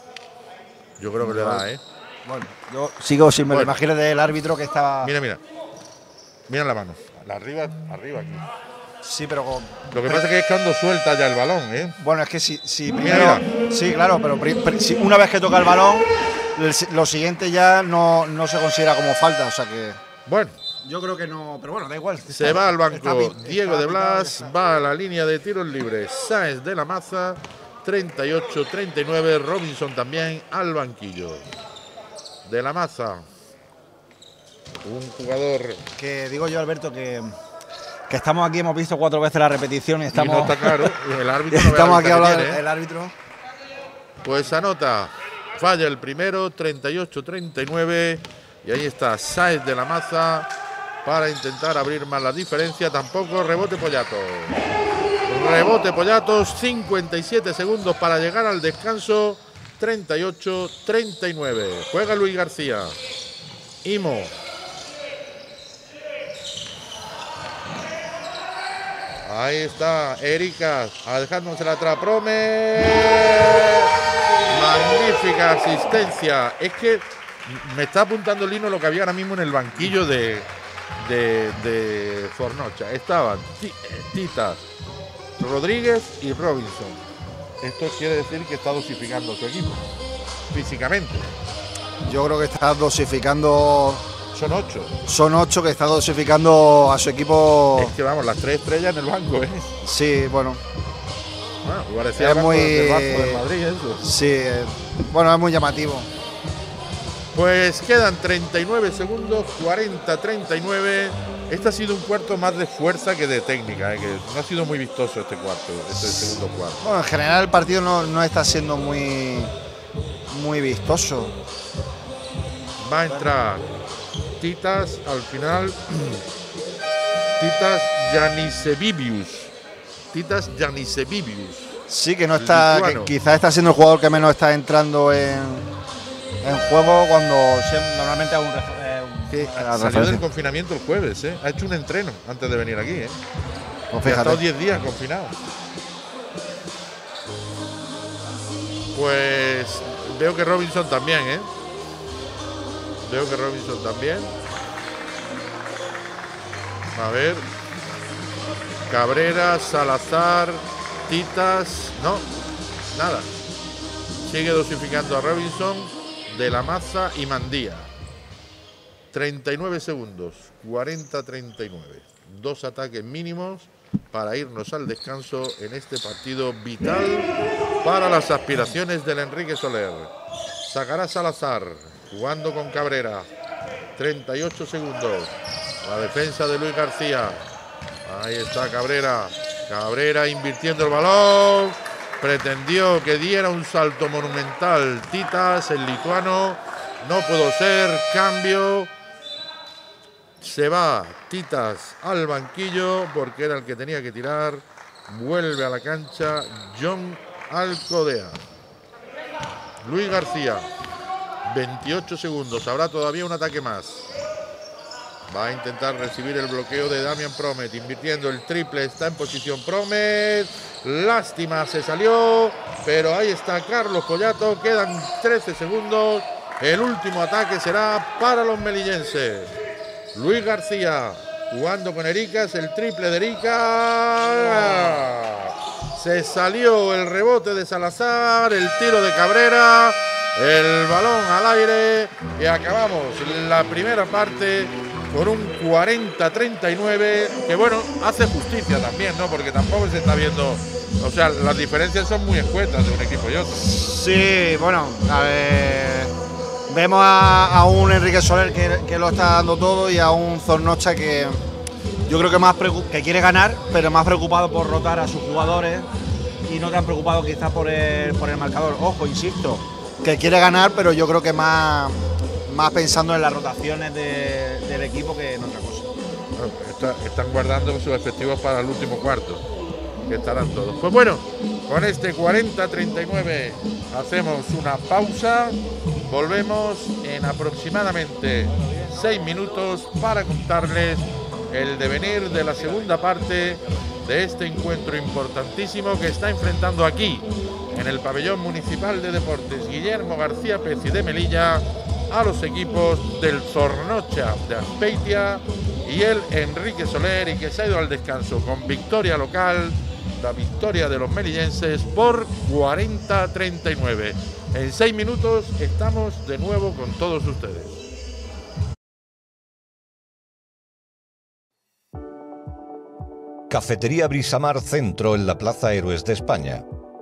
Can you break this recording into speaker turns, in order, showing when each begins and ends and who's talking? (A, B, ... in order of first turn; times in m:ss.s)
0:01.0-0:01.8 A
0:01.2-0:01.6 B
0:02.2-0:05.1 B
0:05.0-0:05.4 A
0:06.5-0:08.5 A
0:09.0-0:10.2 B
0:09.9-0:12.0 A
0:12.0-0:20.0 B
0:13.0-0:13.4 A
0:20.2-0:20.6 A
0:20.8-0:24.5 B
0:22.3-0:31.5 A
0:32.4-0:33.2 A
0:34.8-0:35.8 A
0:36.0-0:37.4 B
0:38.1-0:40.9 B
0:40.1-0:42.6 A
0:41.5-0:43.1 B
0:44.2-0:50.5 A
0:51.0-0:54.6 A
0:55.2-1:03.0 A
1:03.8-1:04.4 A
1:09.2-1:13.9 A
1:14.5-1:24.6 A
1:25.4-1:27.0 A
1:27.6-1:29.8 A
1:30.5-1:31.3 A
1:32.0-1:34.0 B
1:34.3-1:35.0 A
1:35.0-1:37.9 B
1:37.8-1:39.7 A
1:39.8-1:40.6 B
1:41.6-1:44.0 A
1:42.2-1:43.4 B
1:44.0-1:46.1 B
1:47.3-1:56.8 A
1:56.8-1:59.5 B
2:00.3-2:01.3 B
2:02.8-2:03.7 A
2:04.4-2:06.2 A
2:07.4-2:09.5 A
2:10.1-2:11.8 A
2:11.9-2:15.7 B
2:12.4-2:13.1 A
2:16.4-2:20.2 B
2:19.3-2:23.2 A
2:23.9-2:24.4 B
2:24.0-2:25.3 A
2:28.9-2:31.5 A
2:33.0-2:34.3 A
2:36.9-2:37.5 A
2:38.9-2:42.2 A
2:42.9-2:43.3 A
2:44.2-2:47.9 A
2:49.1-2:57.3 A
2:57.8-3:00.1 A
3:00.7-3:03.3 A
3:04.0-3:05.3 A
3:05.8-3:07.4 A
3:08.0-3:18.9 A
3:20.4-3:28.4 A
3:29.8-3:30.7 A
3:31.4-3:34.1 A
3:35.3-3:49.5 A
3:50.1-4:13.6 A
4:13.6-4:16.1 B
4:16.7-4:21.4 B
4:22.0-4:25.9 B
4:26.4-4:36.1 B
4:36.4-4:39.4 A
4:40.1-5:17.7 A
5:23.5-5:26.6 C